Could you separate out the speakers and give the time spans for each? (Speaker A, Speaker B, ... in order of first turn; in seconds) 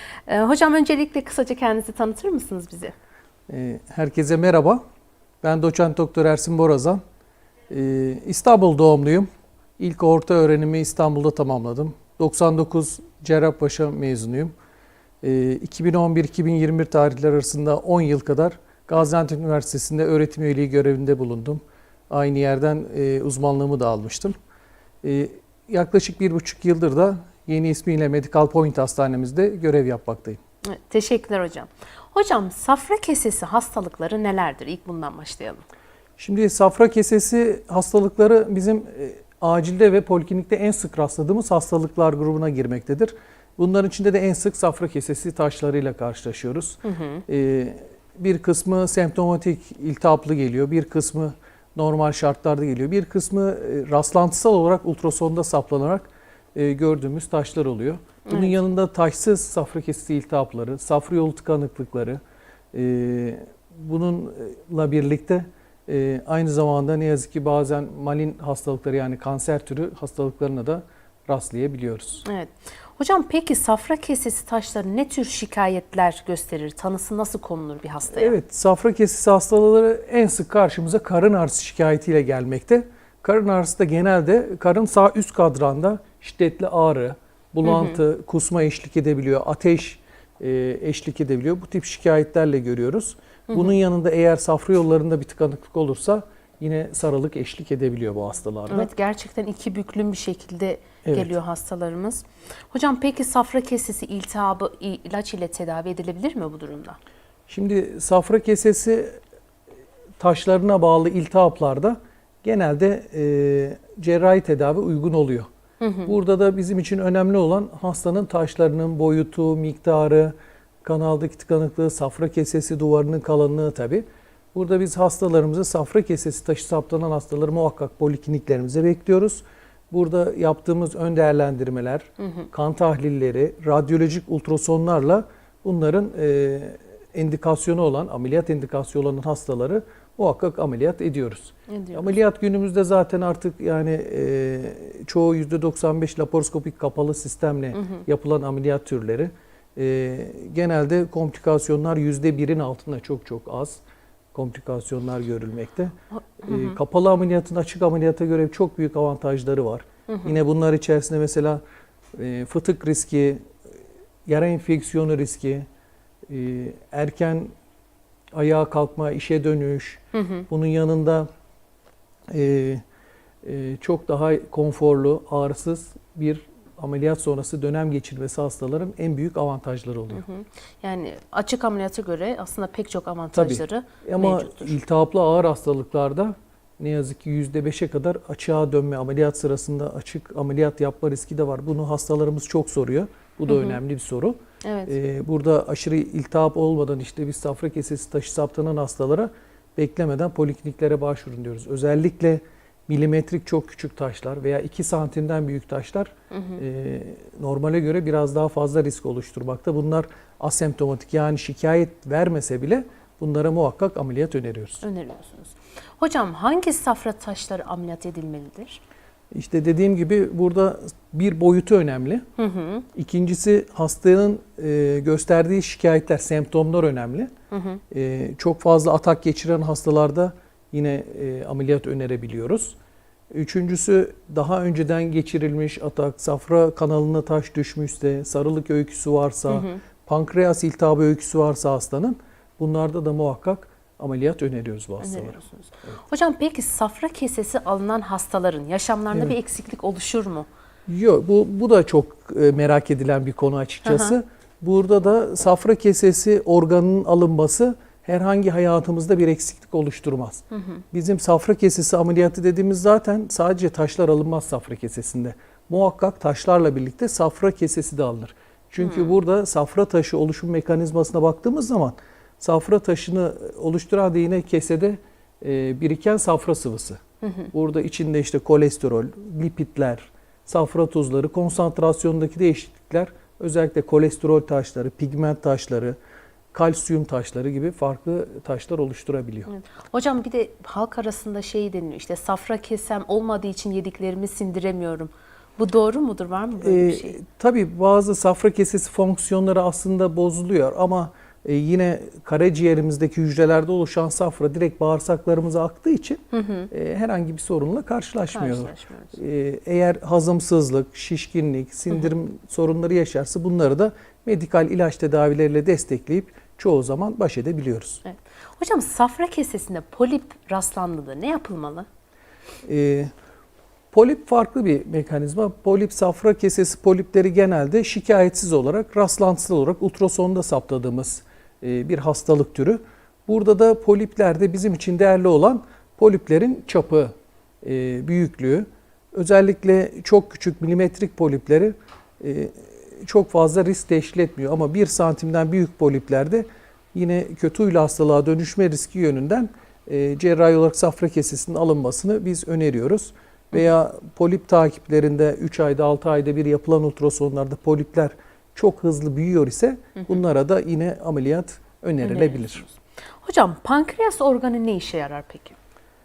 Speaker A: 0.3-2.9, 30.7-35.6, 46.8-47.2, 58.3-58.6, 72.2-78.4, 87.6-88.0, 93.5-93.8, 98.7-107.0, 115.8-116.1, 132.2-132.5, 141.7-142.2, 147.8-148.0, 156.2-156.8, 160.1-160.3, 170.1-170.5, 180.1-184.8, 193.5-193.8, 194.6-195.0, 206.3-206.6, 214.8-218.8, 222.4-222.9, 227.5-227.8, 239.5-239.8, 245.0-250.5, 253.8-254.2, 260.5-260.8, 268.8-269.1, 277.2-277.5, 289.5-297.2, 306.3-306.7, 308.3-309.1, 318.1-321.9, 362.0-362.6, 363.2-365.6
Speaker B: 3.5-4.8, 5.4-7.0, 7.7-9.3, 9.8-14.5, 15.2-24.4, 25.0-30.4, 36.2-62.2, 62.7-72.3, 78.1-98.9, 101.0-101.3, 107.5-109.2, 110.2-115.5, 116.1-153.8, 154.3-161.6, 162.1-163.4, 164.3-165.7, 166.3-167.5, 168.3-171.3, 172.3-172.8, 173.4-180.2, 183.3-194.4, 194.9-214.8, 219.3-222.2, 222.9-227.3, 227.9-232.8, 233.3-245.9, 250.9-277.0, 277.5-286.0, 286.5-289.5, 296.6-318.0, 322.6-323.1, 323.9-362.7